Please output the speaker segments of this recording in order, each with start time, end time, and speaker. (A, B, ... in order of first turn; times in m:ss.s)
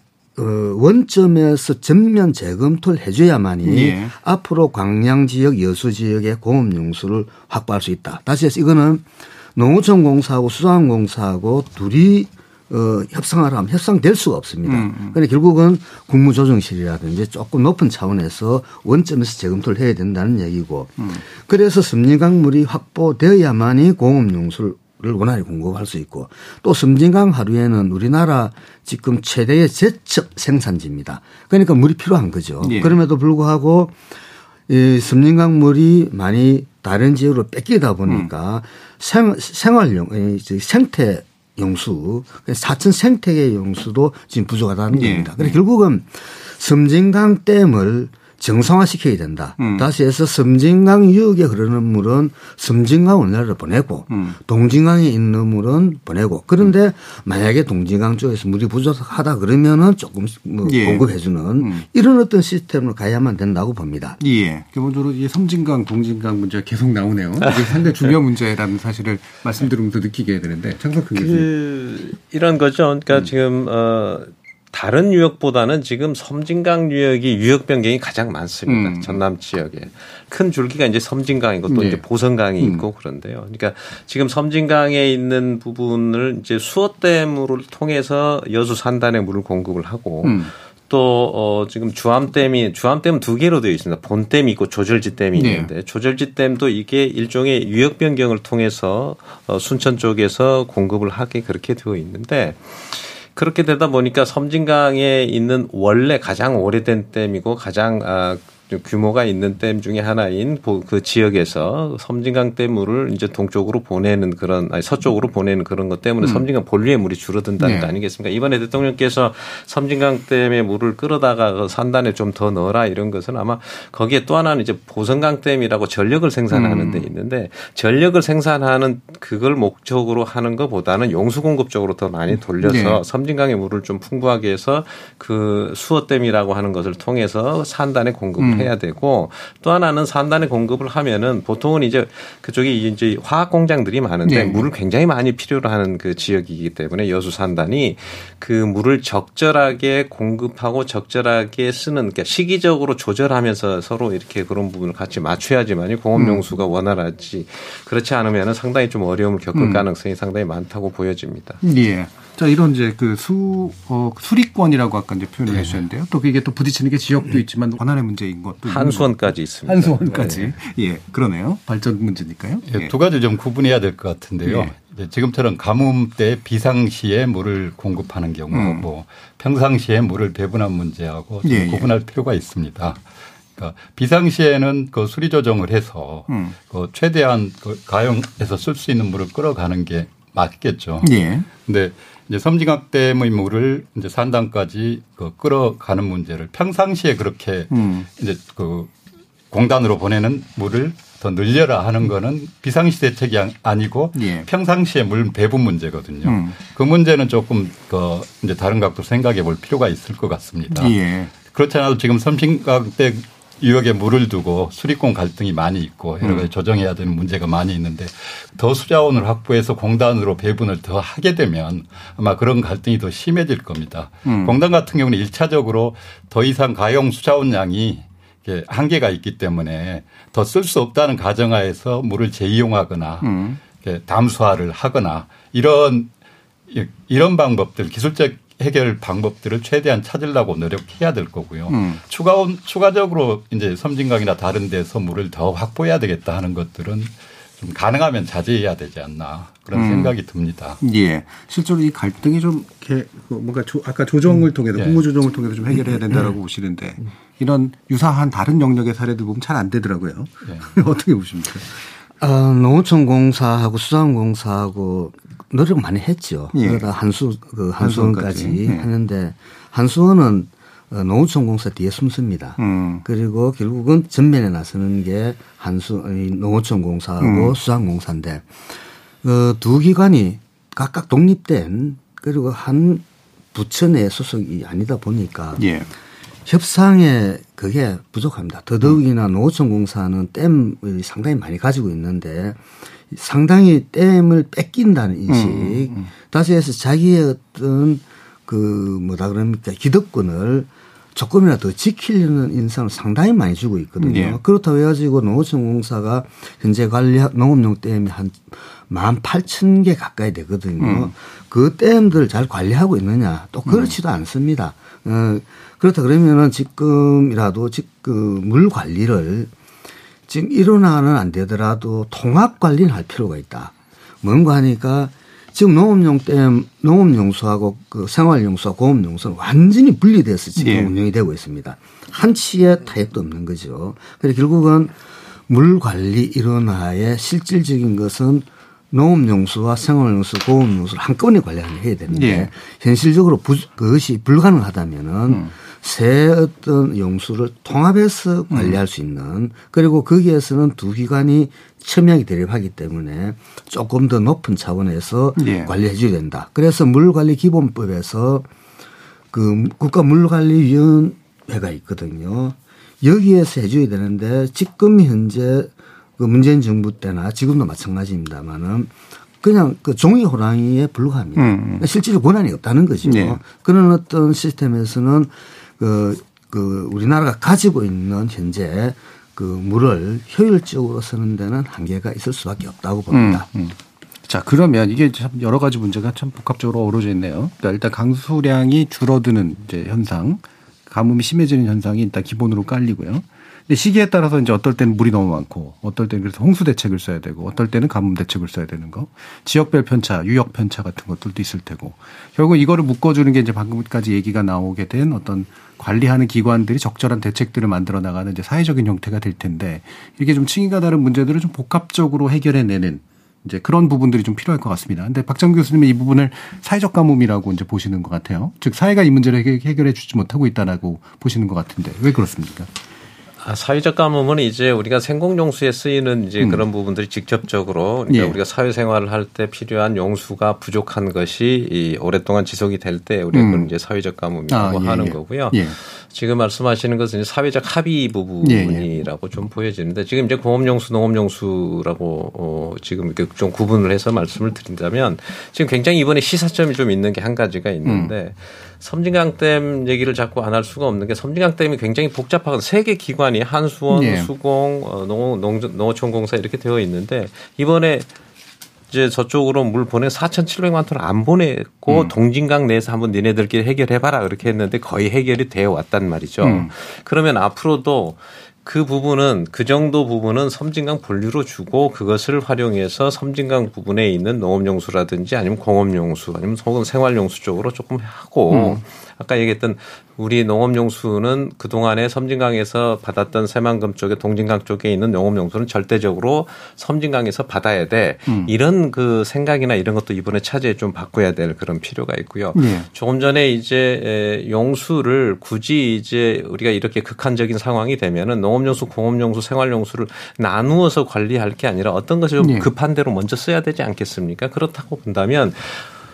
0:00.4-0:34.0 A
0:03.6-0:04.1 B
0:14.6-0:15.2 B
0:32.6-0:33.0 B
0:34.7-1:04.2 A
0:44.9-0:45.6 B
0:49.6-0:49.9 B
0:54.1-0:54.4 B
1:00.6-1:01.1 B
1:01.6-1:01.9 B
1:04.2-1:11.5 B
1:07.4-1:07.8 C
1:11.1-2:41.6 C
1:18.7-1:19.2 B
1:21.7-1:22.0 B
1:22.6-1:22.9 B
1:30.2-1:30.5 B
1:35.3-1:35.7 B
1:57.6-1:57.9 B
2:06.5-2:07.1 B
2:12.6-2:13.0 B
2:18.4-2:18.7 B
2:24.2-2:24.7 B
2:36.2-2:36.4 B
2:39.6-2:39.8 B
2:41.6-2:52.9 B
2:48.7-2:50.5 C
2:52.7-3:03.0 D
2:54.4-2:54.7 B
2:58.5-2:58.9 B
3:01.4-3:01.9 B
3:03.6-3:11.1 D
3:06.3-3:06.6 B
3:11.0-3:11.5 B
3:11.6-3:18.9 D
3:17.7-3:18.1 B
3:19.5-3:56.1 D
3:24.2-3:24.5 B
3:26.2-3:26.6 B
3:30.7-3:31.3 B
3:36.2-3:36.5 B
3:44.3-3:44.6 B
3:53.2-3:53.6 B
3:56.7-4:10.8 D
4:01.7-4:02.0 B
4:09.7-4:10.2 B
4:10.8-4:21.8 B
4:14.8-4:15.0 D
4:22.2-4:38.5 A
4:26.5-4:26.9 B
4:27.8-4:28.9 B
4:32.6-4:33.0 B
4:37.2-4:37.6 B
4:39.2-4:45.6 A
4:45.6-4:45.9 B
4:46.5-4:52.6 A
4:53.1-5:19.5 A
4:55.3-4:56.1 B
5:04.0-5:04.4 B
5:10.8-5:11.1 B
5:13.7-5:13.9 B
5:20.3-5:34.9 A
5:30.6-5:30.9 B
5:35.5-5:58.5 A
5:42.1-5:42.5 B
5:48.5-5:48.8 B
5:55.4-5:55.7 B
5:59.3-6:23.5 A
6:11.4-6:11.9 B
6:13.0-6:13.4 B
6:23.1-7:02.7 B
7:03.4-7:38.1 C
7:08.1-7:08.4 B
7:13.3-7:13.7 B
7:14.5-7:15.8 B
7:18.4-7:18.9 B
7:27.8-7:28.1 B
7:33.9-7:34.3 B
7:38.9-8:25.9 C
7:46.4-7:46.7 B
7:58.5-7:58.8 B
8:08.3-8:08.5 B
8:12.6-8:12.9 B
8:22.4-8:22.7 B